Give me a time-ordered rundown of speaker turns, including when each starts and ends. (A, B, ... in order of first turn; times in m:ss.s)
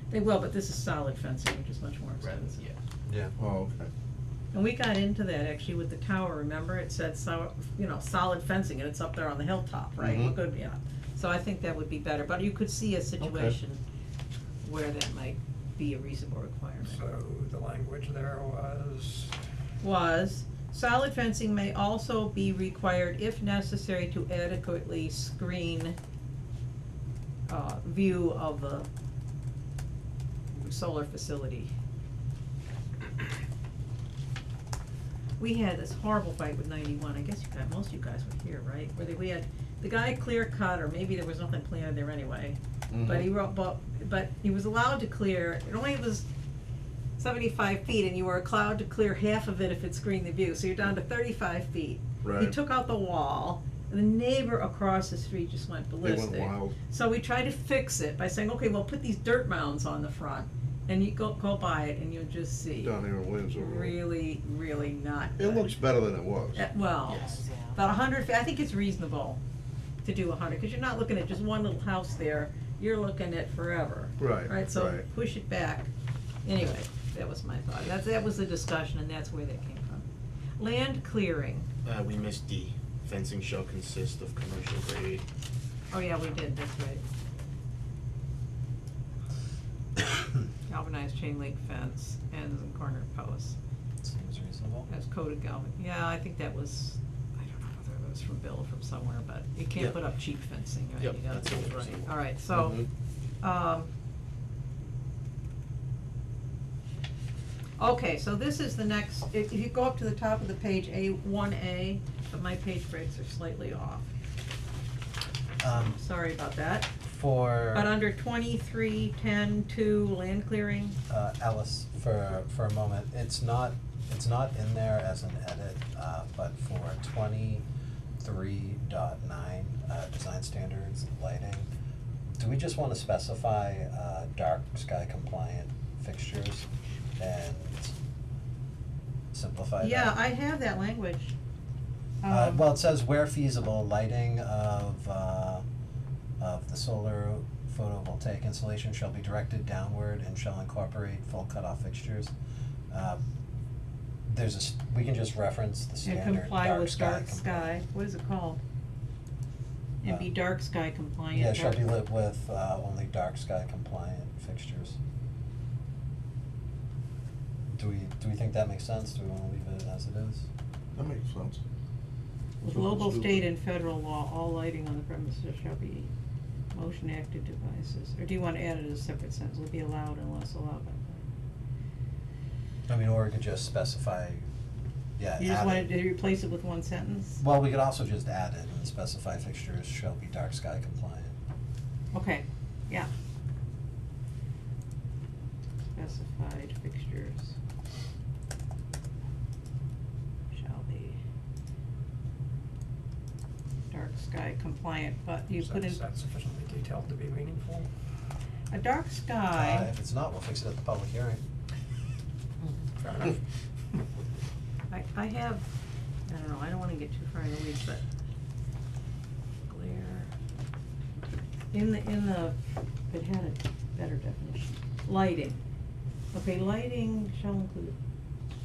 0:00.1-0:02.6 A
0:03.0-0:03.3 B
0:03.4-0:03.9 C
0:04.5-0:13.8 A
0:10.0-0:10.3 C
0:13.2-0:13.5 C
0:14.6-0:17.0 A
0:16.8-0:19.3 D
0:19.8-0:26.0 A
0:27.5-0:28.9 A
0:30.5-0:31.7 A
0:35.4-0:46.2 A
0:42.9-0:43.2 C
0:47.2-1:03.0 A
0:52.2-0:52.5 C
0:56.0-0:56.7 C
1:02.8-1:04.0 C
1:03.5-1:05.8 A
1:05.4-1:06.6 C
1:06.5-1:09.4 A
1:10.0-1:15.9 A
1:14.2-1:15.0 C
1:16.4-1:20.0 A
1:20.6-1:21.7 A
1:21.8-1:25.2 E
1:25.9-1:27.0 A
1:30.7-1:33.6 A
1:34.0-1:34.9 B
1:34.9-1:42.8 A
1:41.4-1:41.8 C
1:41.6-1:42.0 E
1:43.4-1:43.9 A
1:47.8-1:54.1 A
1:55.6-1:56.0 B
1:55.6-1:56.9 A
1:57.1-1:57.9 B
1:57.7-2:01.0 A
2:01.1-2:07.6 B
2:08.2-2:11.7 B
2:12.3-2:16.7 B
2:17.2-2:17.9 B
2:19.3-2:20.1 B
2:19.8-2:21.3 A
2:22.2-2:22.6 A
2:22.3-2:25.6 B
2:26.4-2:32.3 B
2:32.9-2:33.2 B
2:34.3-2:37.7 B
2:36.0-2:38.6 A
2:40.0-2:41.9 A
2:41.3-2:45.0 B
2:47.7-2:50.4 B
2:50.9-2:51.6 C
2:52.6-2:56.1 A
2:52.7-2:53.4 C
2:56.7-3:01.3 A
3:02.9-3:04.5 B
3:05.2-3:05.9 B
3:05.4-3:07.4 A
3:07.4-3:11.3 B
3:12.1-3:13.1 A
3:15.9-3:17.6 A
3:20.5-3:21.2 A
3:23.9-3:26.0 A
3:25.6-3:27.9 D
3:28.7-3:29.9 A
3:29.5-3:31.4 B
3:33.0-3:33.4 D
3:34.9-3:35.6 A
3:36.2-3:38.0 A
3:39.6-3:40.3 A
3:41.7-3:45.6 A
3:46.3-3:48.0 A